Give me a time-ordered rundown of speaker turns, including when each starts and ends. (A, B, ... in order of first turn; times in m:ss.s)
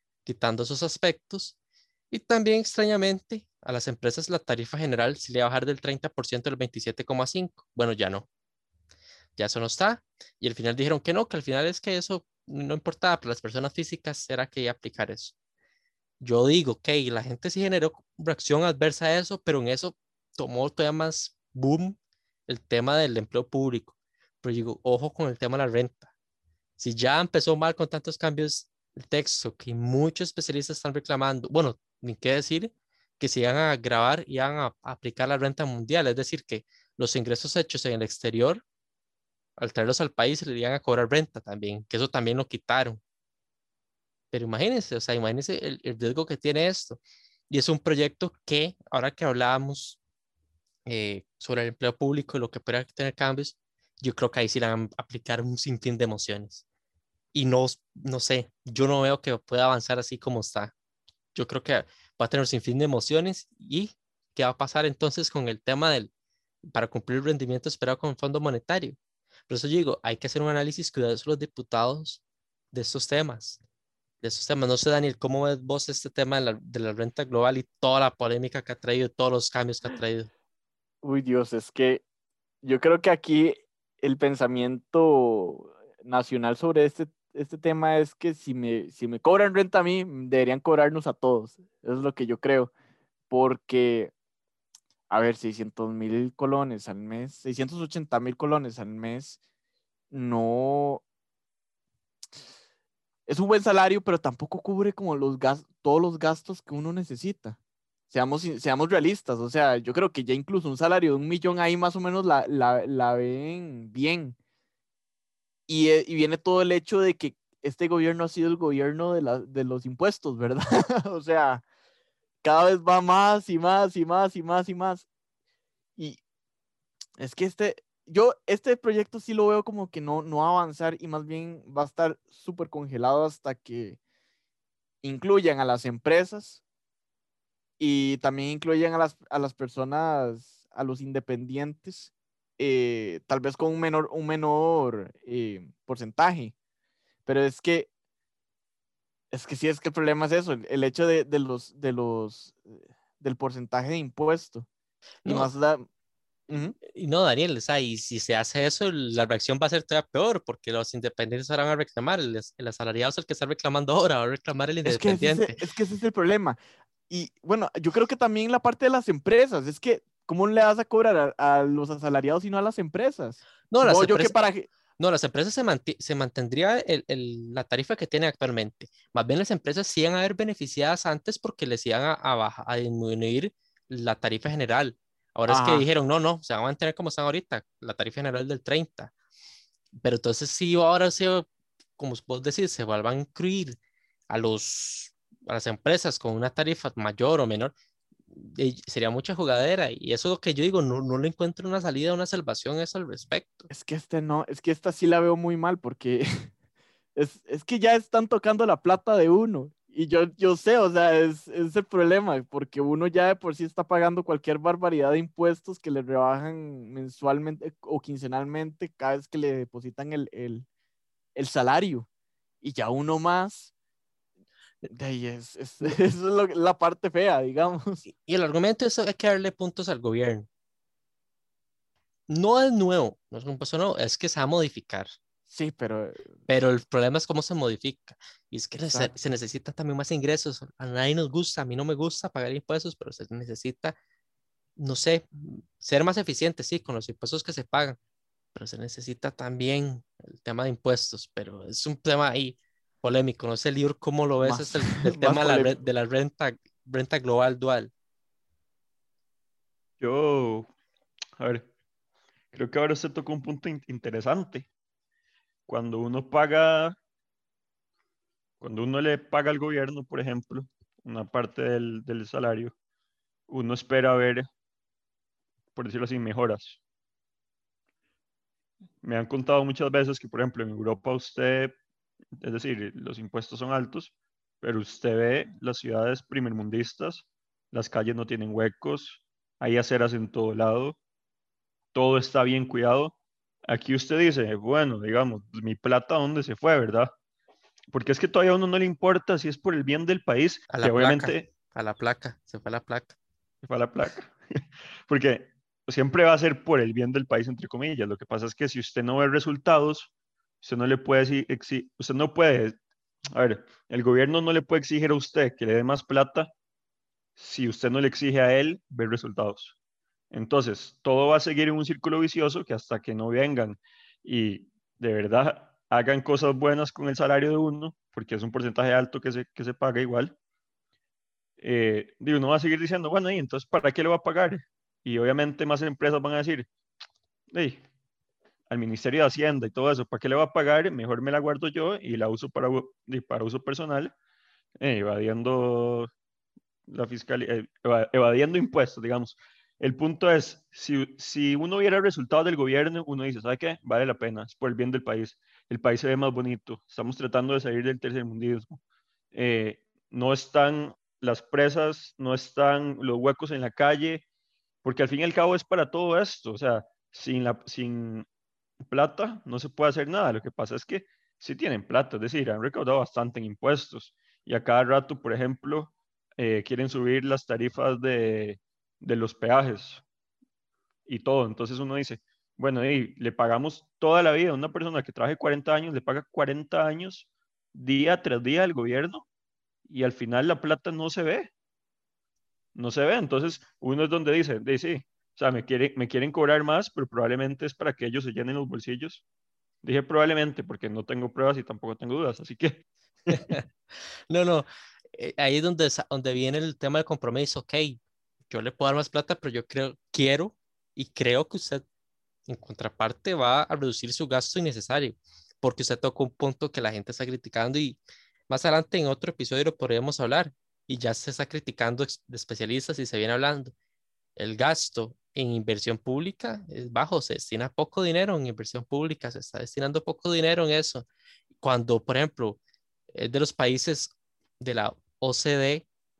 0:00.2-0:01.5 A
0:02.1-0:08.3 A
0:09.4-0:15.3 A
0:16.2-0:22.0 A
0:22.5-0:26.1 A
0:26.8-0:38.6 A
0:39.6-0:43.0 A
0:44.3-0:50.0 A
0:50.8-0:56.6 A
0:57.3-1:00.7 A
1:01.3-1:06.1 A
1:06.6-1:13.6 A
1:14.2-1:20.3 A
1:21.0-1:22.0 B
1:22.6-1:32.7 B
1:33.3-1:34.1 B
1:35.1-1:39.4 B
1:40.1-1:41.0 B
1:43.3-1:47.6 B
1:48.1-1:54.4 B
1:55.7-2:01.6 B
2:02.4-2:05.1 B
2:07.2-2:14.0 B
2:15.0-2:16.6 B
2:17.8-2:26.5 B
2:27.2-2:27.9 B
2:29.3-2:34.7 B
2:35.2-2:35.5 A
2:35.2-2:35.8 B
2:36.5-2:36.8 B
2:36.9-2:45.6 A
2:44.8-2:46.6 B
2:47.1-2:54.7 B
2:53.7-2:54.3 A
2:55.0-3:09.1 A
3:05.5-3:05.9 B
3:09.9-3:11.5 A
3:12.0-3:13.8 A
3:14.3-3:17.7 A
3:18.3-3:23.7 A
3:23.7-3:26.5 B
3:27.1-3:40.7 B
3:41.4-3:42.1 B
3:42.6-3:43.7 B
3:44.9-3:48.0 B
3:48.1-3:50.5 A
3:52.3-3:55.1 A
3:55.5-3:56.2 B
3:56.5-4:04.0 A
3:58.9-3:59.1 B
4:04.8-4:08.0 A
4:08.5-4:17.9 A
4:14.4-4:15.8 B
4:20.0-4:20.7 C
4:21.4-4:21.7 C
4:22.5-4:24.7 C
4:25.7-4:27.0 C
4:28.6-4:32.7 C
4:33.5-4:34.4 C
4:35.7-4:36.8 C
4:39.0-4:41.8 C
4:42.4-4:51.0 C
4:51.9-4:53.2 C
4:53.7-4:57.1 C
4:57.9-5:01.5 C
5:00.7-5:03.2 A
5:03.6-5:04.3 C
5:05.1-5:10.1 C
5:10.6-5:12.8 C
5:13.3-5:16.5 C
5:17.4-5:19.7 C
5:20.3-5:30.3 C
5:31.6-5:36.7 C
5:37.5-5:37.8 C
5:38.7-5:44.1 C
5:44.8-5:46.1 C
5:46.9-5:58.8 C
5:59.3-6:04.2 C
6:04.8-6:08.2 C
6:08.9-6:20.0 C
6:21.0-6:29.2 C
6:29.8-6:31.5 C
6:32.7-6:39.2 C
6:39.8-6:43.4 C
6:43.3-6:43.6 A
6:44.3-6:51.8 A
6:52.5-7:03.7 A
7:04.4-7:11.0 A
7:11.6-7:12.6 A
7:13.1-7:15.8 A